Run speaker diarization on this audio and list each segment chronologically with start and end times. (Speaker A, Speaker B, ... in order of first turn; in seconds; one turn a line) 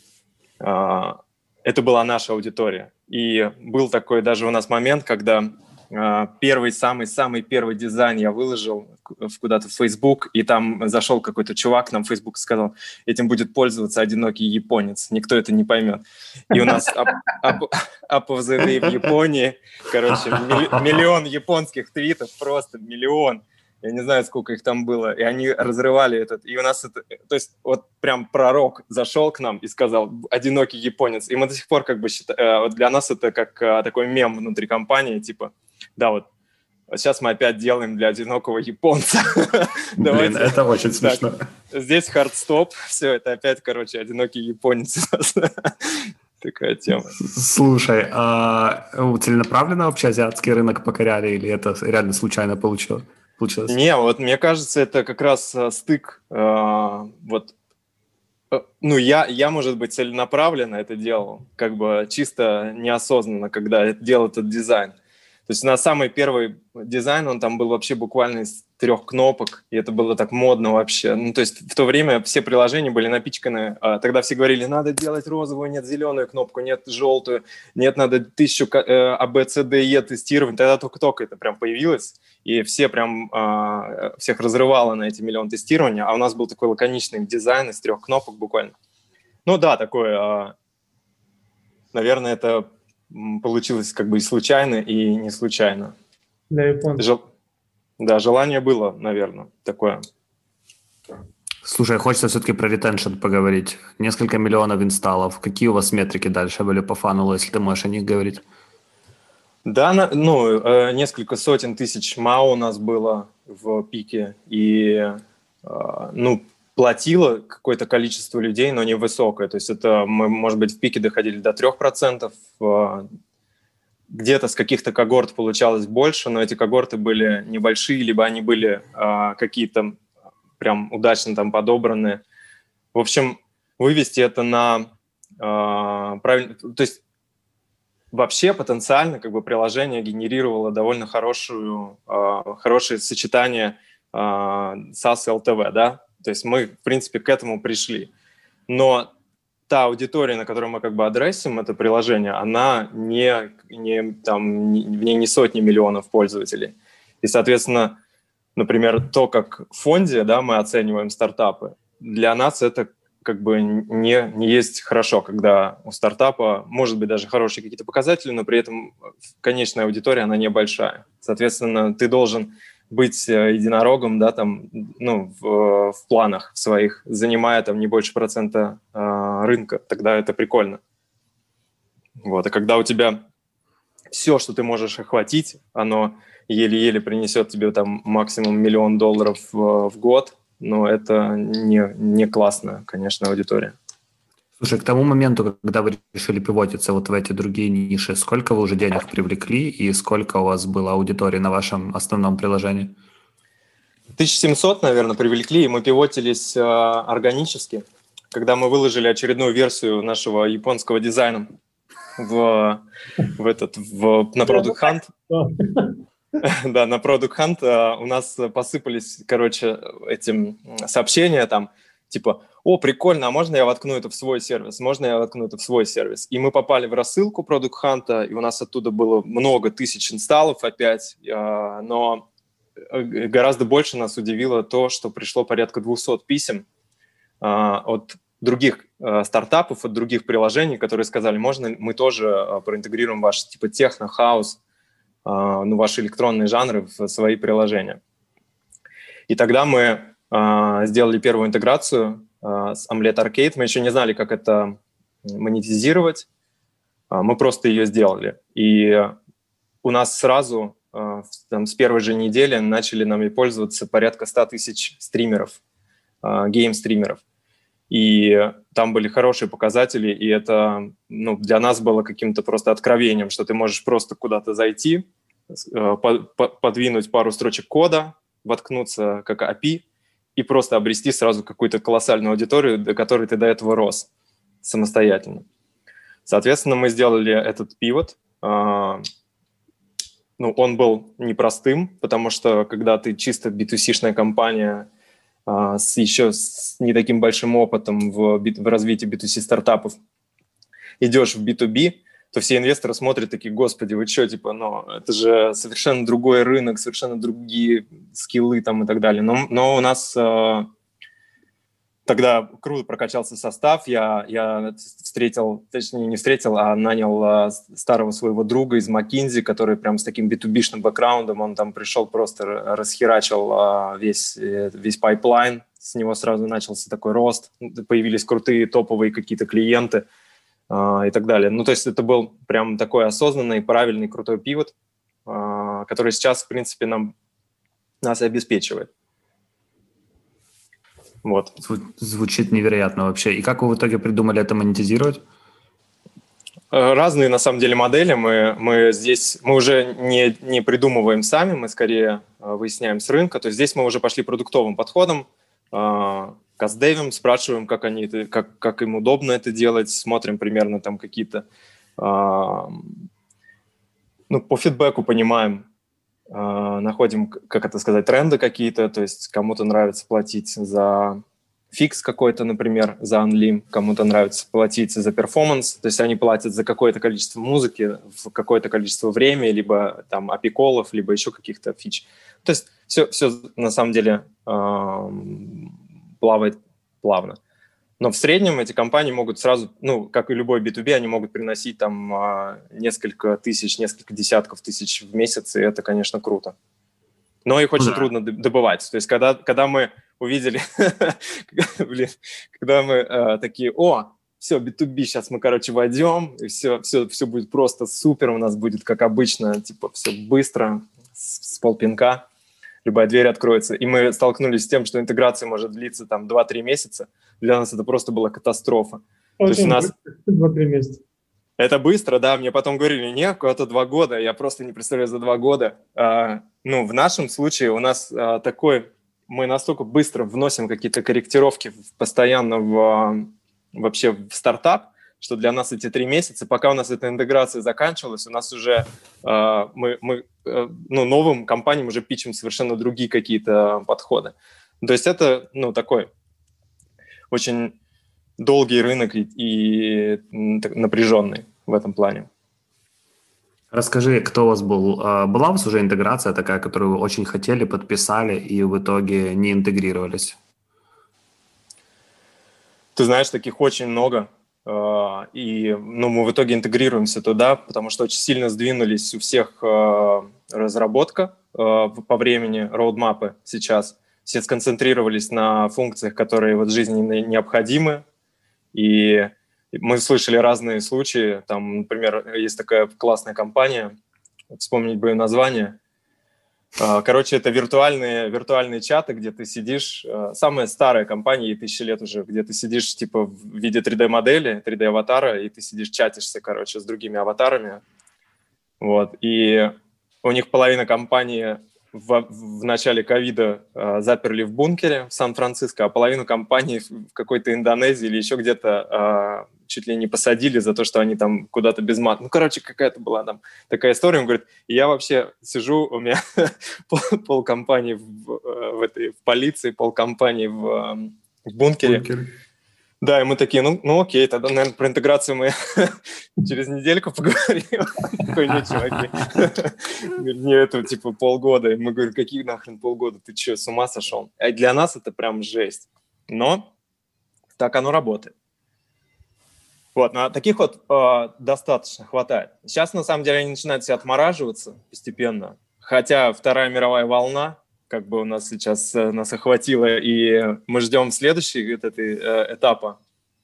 Speaker A: 0.6-36.2
Speaker A: 36.9-47.1
Speaker B: 40.0-41.4
Speaker B: 47.2-53.8
Speaker A: 53.7-57.5
Speaker A: 58.5-64.9
Speaker A: 65.5-88.7
Speaker A: 89.5-90.5
Speaker A: 91.9-95.9
Speaker C: 96.5-97.1
Speaker A: 98.0-100.0
Speaker B: 101.6-108.4
Speaker A: 109.6-123.1
Speaker A: 124.1-130.0
Speaker A: 130.6-132.2
Speaker A: 132.9-137.0
Speaker A: 138.1-148.1
Speaker A: 148.7-149.1
Speaker A: 149.7-158.0
Speaker A: 158.6-180.8
Speaker A: 182.2-183.2
Speaker A: 184.1-193.7
Speaker B: 194.6-202.9
Speaker A: 204.2-211.5
Speaker A: 212.2-212.8
Speaker A: 213.3-215.1
Speaker C: 214.4-216.0
Speaker A: 216.4-232.2
Speaker A: 232.9-236.6
Speaker A: 237.4-244.6
Speaker A: 245.2-248.0
Speaker A: 249.3-256.2
Speaker A: 257.1-259.1
Speaker A: 259.8-265.6
Speaker A: 266.2-267.2
Speaker A: 267.9-279.8
Speaker A: 280.4-284.1
Speaker A: 284.6-285.4
Speaker A: 286.2-289.0
Speaker A: 290.4-294.9
Speaker A: 295.4-299.9
Speaker A: 301.0-310.7
Speaker A: 312.1-330.0
Speaker A: 330.7-334.7
Speaker A: 335.2-337.1
Speaker A: 338.0-338.9
Speaker A: 341.2-341.5
Speaker B: 341.6-345.2
Speaker A: 346.7-361.4
Speaker A: 362.0-362.9
Speaker A: 364.3-365.6
Speaker A: 366.3-371.2
Speaker A: 371.7-385.7
Speaker A: 386.2-387.4
Speaker A: 388.0-396.5
Speaker A: 397.4-412.2
Speaker B: 397.8-398.1
Speaker A: 412.8-419.9
Speaker C: 419.4-421.0
Speaker A: 421.6-446.1
Speaker A: 447.3-447.7
Speaker A: 448.4-452.3
Speaker B: 453.7-460.4
Speaker A: 462.9-478.0
Speaker A: 478.7-483.9
Speaker A: 484.5-485.8
Speaker A: 486.8-497.8
Speaker A: 498.8-522.1
Speaker B: 521.8-522.3
Speaker A: 523.0-536.7
Speaker B: 528.5-529.0
Speaker A: 537.6-538.3
Speaker A: 539.9-553.0